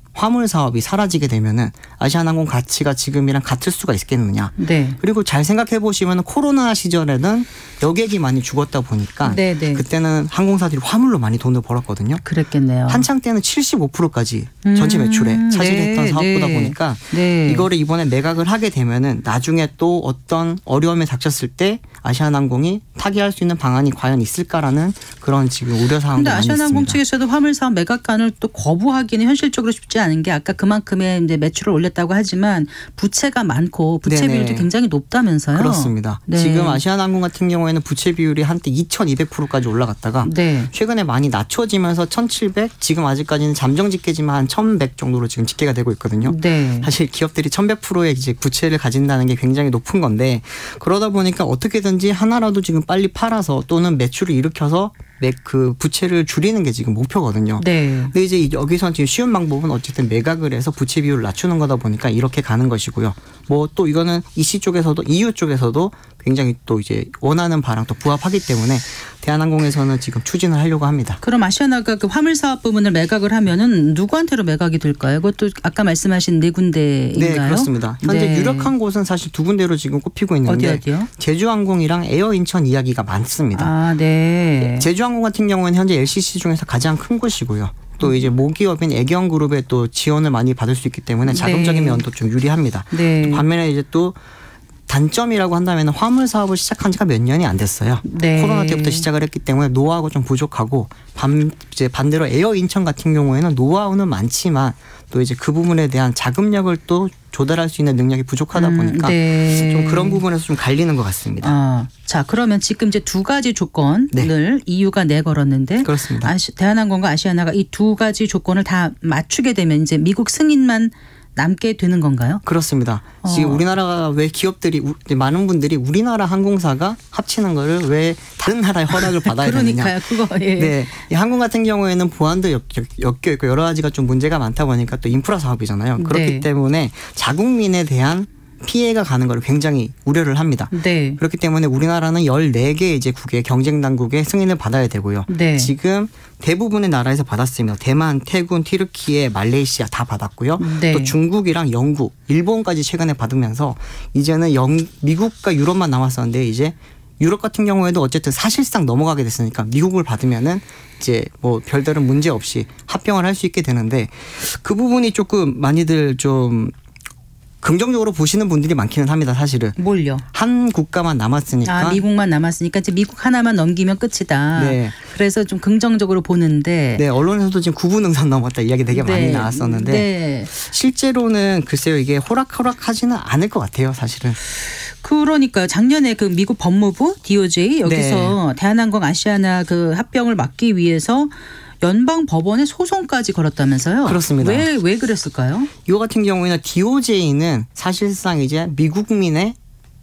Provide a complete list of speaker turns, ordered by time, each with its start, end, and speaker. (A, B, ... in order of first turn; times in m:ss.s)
0:00.1-0:12.2 A
0:04.6-0:05.0 B
0:09.2-0:09.8 B
0:12.2-0:13.1 B
0:12.9-0:27.0 A
0:14.6-0:17.7 B
0:26.1-0:36.8 B
0:34.0-0:34.7 A
0:35.5-1:11.2 A
0:40.2-0:40.7 B
0:46.2-0:46.9 B
0:57.6-0:58.1 B
1:11.2-1:18.7 B
1:17.1-1:23.7 A
1:20.4-1:21.1 B
1:23.5-1:24.9 B
1:24.6-1:34.2 A
1:28.0-1:28.3 B
1:31.2-1:32.0 B
1:32.9-1:33.4 B
1:34.9-1:51.6 A
1:38.0-1:39.1 B
1:48.5-1:50.2 B
1:51.4-2:02.4 B
1:55.8-1:56.3 A
2:02.4-2:10.0 A
2:03.2-2:03.6 B
2:08.9-2:10.8 B
2:10.5-2:46.7 A
2:16.0-2:16.5 B
2:20.7-2:21.2 B
2:25.3-2:25.7 B
2:30.6-2:31.2 B
2:47.6-2:49.8 A
2:49.8-2:50.2 B
2:50.3-2:52.0 A
2:51.6-2:57.1 B
2:54.5-2:54.9 A
2:57.0-3:04.4 A
2:58.9-3:00.5 B
3:04.7-3:15.7 B
3:07.8-3:08.4 A
3:14.0-3:14.7 A
3:15.8-3:19.6 A